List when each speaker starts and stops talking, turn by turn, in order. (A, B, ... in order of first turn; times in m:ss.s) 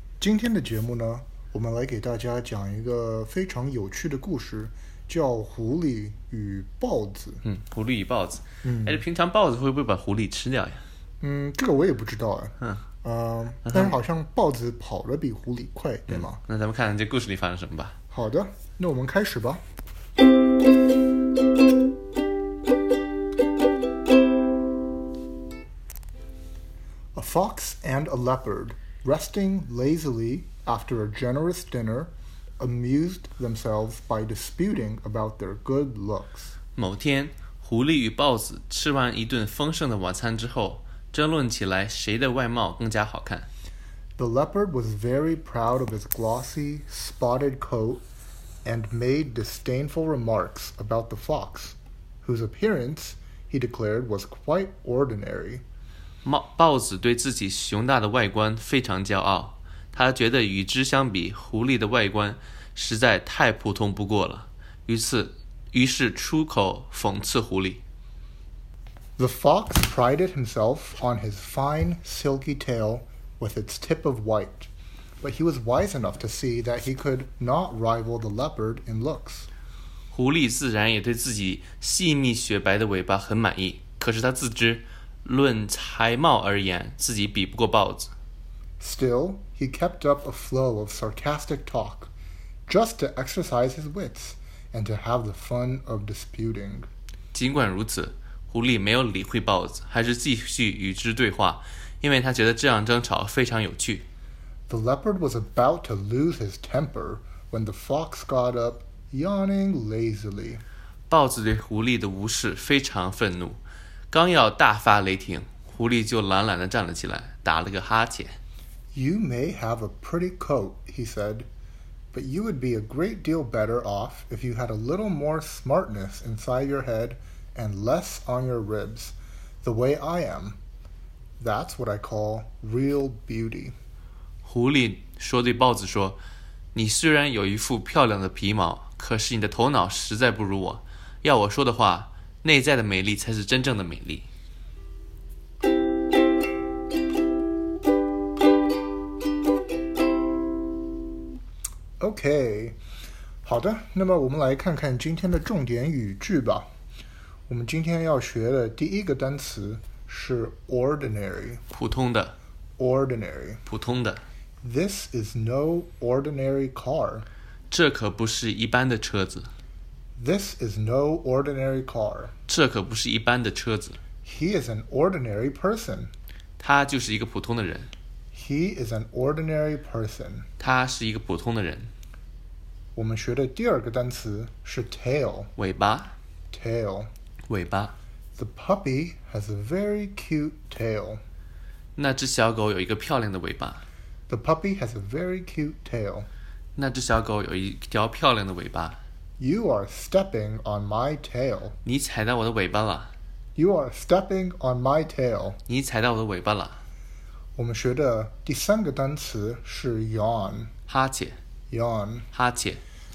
0:00.2-0:07.4 A
0:07.4-0:10.8 B
0:08.6-0:09.0 A
0:11.2-0:16.4 A
0:13.7-0:14.0 B
0:16.1-0:18.0 B
0:18.1-0:19.6 A
0:27.2-0:36.6 A
0:36.8-0:43.5 B
0:44.2-0:48.0 A
0:48.6-0:55.6 A
0:56.2-1:07.8 B
1:09.2-1:14.7 A
1:15.2-1:19.5 A
1:20.1-1:28.1 B
1:28.8-1:32.1 A
1:32.7-1:36.9 A
1:37.3-1:44.1 B
1:44.7-1:50.6 A
1:51.1-1:53.6 B
1:54.1-1:58.4 B
1:58.9-2:01.5 A
2:02.1-2:10.6 A
2:11.4-2:13.8 A
2:14.4-2:16.2 B
2:16.8-2:24.3 B
2:32.0-2:32.8 A
2:33.4-2:36.7 A
2:37.5-2:41.6 A
2:41.7-2:42.4 B
2:42.8-2:43.6 A
2:43.7-2:44.2 B
2:44.6-2:47.3 A
2:47.7-2:49.5 B
2:50.2-2:52.3 A
2:52.5-2:54.0 B
2:54.2-2:56.1 A
2:56.6-2:57.9 B
2:58.3-3:00.5 A
3:00.6-3:01.9 B
3:03.0-3:05.5 A
3:05.6-3:06.2 B
3:06.5-3:07.1 A
3:07.5-3:07.9 B
3:08.4-3:11.2 A
3:12.0-3:13.8 B
3:14.3-3:16.3 A
3:16.8-3:19.0 B
3:19.4-3:21.8 A
3:21.8-3:23.1 B
3:23.6-3:25.6 A
3:25.7-3:26.8 B
3:27.6-3:30.7 A
3:30.9-3:31.4 B
3:31.7-3:32.3 A
3:32.3-3:32.8 B